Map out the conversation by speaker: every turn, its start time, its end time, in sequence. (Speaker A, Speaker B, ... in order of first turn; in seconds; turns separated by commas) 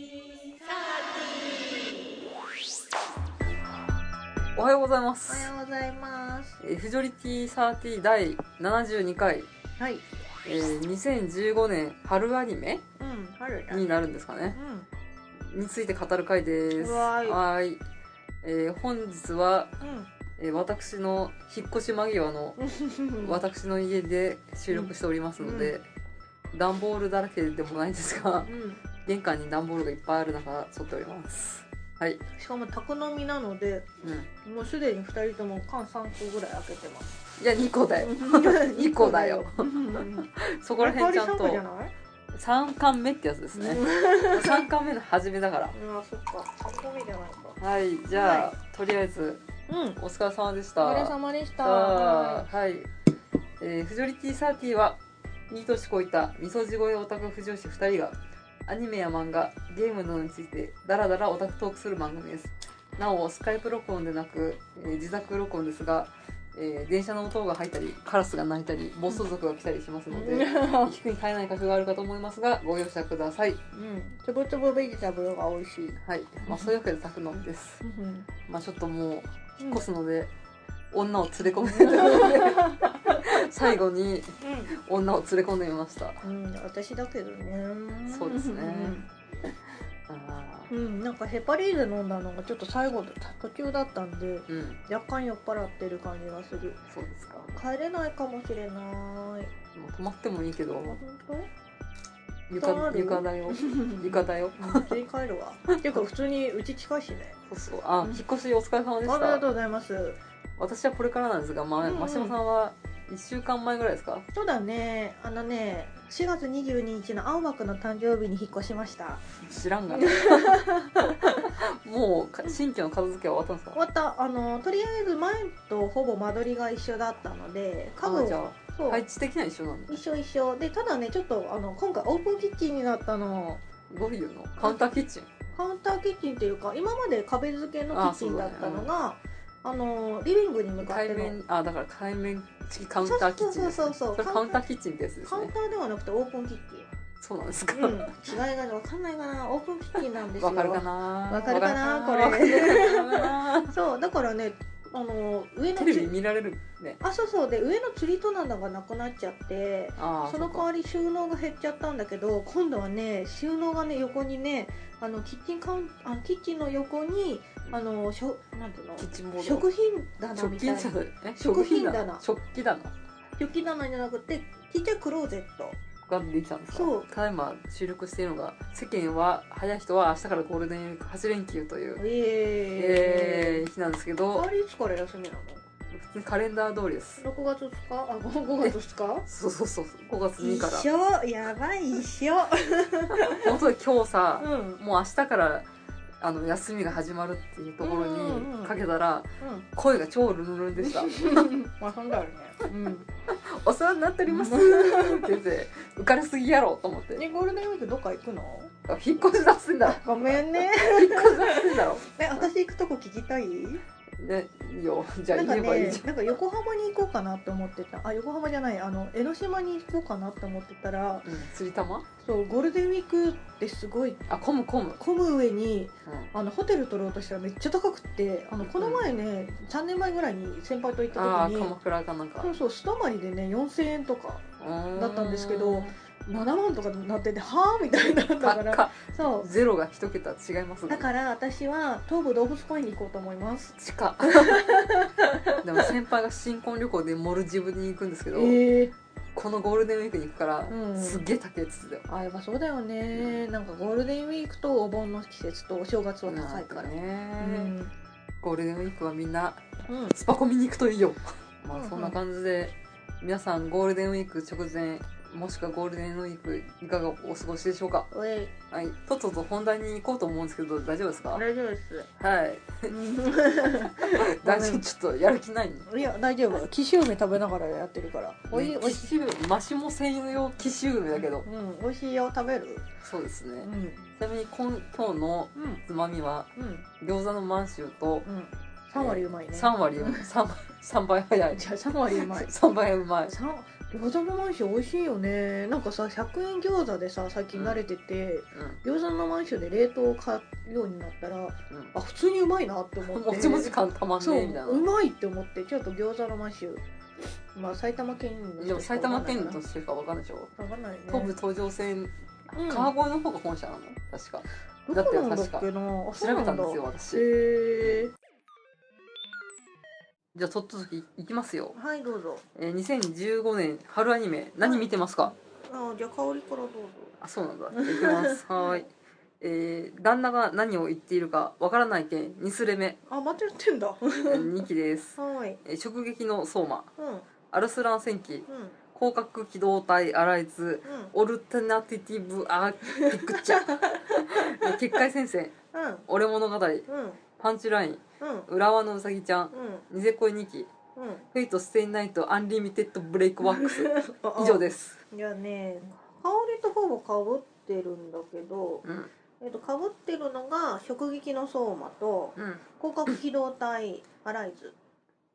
Speaker A: 0.6-2.1, Speaker B: 4.5-5.5, Speaker A: 5.3-6.6, Speaker B: 6.6-9.5, Speaker A: 9.8-10.0, Speaker B: 10.4-12.8, Speaker A: 13.0-13.9, Speaker B: 13.7-14.6, Speaker A: 14.5-14.9, Speaker B: 15.5-17.8, Speaker A: 16.8-17.4, Speaker B: 18.4-19.7, Speaker A: 19.8-20.1, Speaker B: 20.4-22.6, Speaker A: 22.6-23.4, Speaker B: 23.2-25.9, Speaker A: 24.7-25.8, Speaker B: 26.5-28.5, Speaker A: 28.5-28.8, Speaker B: 29.0-32.2, Speaker A: 32.4-33.9, Speaker B: 34.0-34.3, Speaker A: 34.4-37.2, Speaker B: 37.4-41.6, Speaker A: 38.0-41.9, Speaker B: 42.3-45.8, Speaker A: 43.5-44.6, Speaker A: 45.7-47.6, Speaker B: 47.6-49.5, Speaker A: 48.1-48.5, Speaker A: 49.7-50.0, Speaker B: 50.0-52.9, Speaker A: 50.8-52.5, Speaker B: 53.6-73.6, Speaker A: 70.1-71.0, Speaker A: 73.7-76.7, Speaker B: 76.0-77.8, Speaker A: 77.8-78.3, Speaker B: 78.5-80.3, Speaker B: 80.9-86.2, Speaker A: 81.4-83.8, Speaker A: 84.4-84.7, Speaker A: 86.2-89.1, Speaker B: 88.1-89.0, Speaker B: 90.1-90.7, Speaker A: 90.7-96.8, Speaker B: 94.5-94.8, Speaker B: 96.9-97.5, Speaker A: 97.5-99.5, Speaker B: 99.7-101.0, Speaker A: 100.8-101.5, Speaker B: 102.5-105.0, Speaker A: 102.6-107.4, Speaker B: 105.8-106.0, Speaker B: 107.5-109.5, Speaker A: 109.0-110.2, Speaker B: 110.6-114.3, Speaker A: 111.8-112.4, Speaker A: 114.3-119.2, Speaker B: 119.4-120.6, Speaker A: 119.9-121.5, Speaker B: 121.4-123.8, Speaker A: 123.8-129.0, Speaker B: 128.0-130.0, Speaker A: 129.9-133.6, Speaker B: 133.9-135.3, Speaker A: 134.6-141.4, Speaker B: 137.9-138.9, Speaker B: 140.8-145.5, Speaker A: 143.0-144.6, Speaker A: 145.3-146.9, Speaker B: 147.2-148.1, Speaker A: 147.7-156.1, Speaker B: 150.4-153.7, Speaker B: 155.8-157.0, Speaker A: 157.0-172.2, Speaker B: 160.0-160.7, Speaker B: 169.0-169.7, Speaker B: 170.3-172.9, Speaker A: 173.4-175.8, Speaker B: 176.0-182.0, Speaker A: 176.7-177.1, Speaker A: 182.0-183.7, Speaker B: 182.8-184.5, Speaker A: 184.3-185.6, Speaker B: 185.9-187.2, Speaker A: 187.2-189.3, Speaker B: 188.6-190.9, Speaker A: 190.4-193.5, Speaker B: 193.3-195.7, Speaker A: 194.4-194.8, Speaker B: 196.2-201.5, Speaker A: 197.8-198.8, Speaker A: 199.4-199.7, Speaker A: 200.8-203.1, Speaker B: 203.3-207.2, Speaker A: 204.3-205.4, Speaker A: 207.2-208.7, Speaker B: 208.9-212.5, Speaker A: 209.8-213.8, Speaker B: 214.2-216.1, Speaker A: 215.3-221.3, Speaker B: 221.2-222.1, Speaker A: 222.2-224.2, Speaker B: 224.3-225.0, Speaker A: 225.0-231.8, Speaker B: 226.1-226.3, Speaker B: 228.6-229.1, Speaker B: 231.1-232.5, Speaker A: 232.4-234.4, Speaker B: 234.6-236.0, Speaker A: 235.0-239.5, Speaker B: 238.4-241.1, Speaker A: 240.9-245.9, Speaker B: 243.8-244.7, Speaker B: 245.6-248.7, Speaker A: 248.3-248.9, Speaker B: 249.3-252.1, Speaker A: 250.7-251.3, Speaker A: 252.1-257.9, Speaker B: 253.1-253.4, Speaker B: 256.3-257.7, Speaker B: 258.4-268.1, Speaker A: 259.9-260.2, Speaker A: 261.7-262.2, Speaker A: 268.1-268.5, Speaker B: 268.7-271.4, Speaker A: 271.3-272.1, Speaker B: 272.2-272.9, Speaker A: 272.9-274.9, Speaker B: 273.8-275.9, Speaker A: 275.9-279.1, Speaker B: 278.5-281.5, Speaker A: 281.1-282.9, Speaker B: 283.0-286.5, Speaker A: 283.6-284.0, Speaker A: 285.6-285.8, Speaker A: 286.6-286.9, Speaker B: 287.0-288.3, Speaker A: 288.2-290.3, Speaker B: 288.9-293.3, Speaker A: 291.5-292.5, Speaker A: 293.2-306.8, Speaker B: 297.5-297.8, Speaker B: 298.5-298.8, Speaker B: 303.0-304.9, Speaker A: 307.5-309.6, Speaker B: 308.6-310.5, Speaker A: 310.6-311.4, Speaker B: 311.1-317.3, Speaker A: 312.6-312.9, Speaker A: 314.9-318.1, Speaker B: 320.3-321.8, Speaker A: 321.7-322.4, Speaker B: 322.6-325.4, Speaker A: 324.6-327.1, Speaker B: 327.2-328.9, Speaker A: 327.7-328.9, Speaker B: 329.4-333.0, Speaker A: 333.1-334.7, Speaker B: 334.3-336.9, Speaker A: 335.2-335.6, Speaker A: 337.0-337.3, Speaker B: 337.5-345.5, Speaker A: 338.5-338.8, Speaker A: 340.8-341.1, Speaker A: 342.9-345.0, Speaker A: 345.7-346.1, Speaker B: 346.1-350.7, Speaker A: 346.9-347.2, Speaker A: 348.2-348.5, Speaker A: 349.5-349.9, Speaker A: 351.0-351.3, Speaker B: 351.3-355.0, Speaker A: 353.4-358.9, Speaker B: 358.8-359.1, Speaker A: 359.4-364.8, Speaker B: 362.4-363.1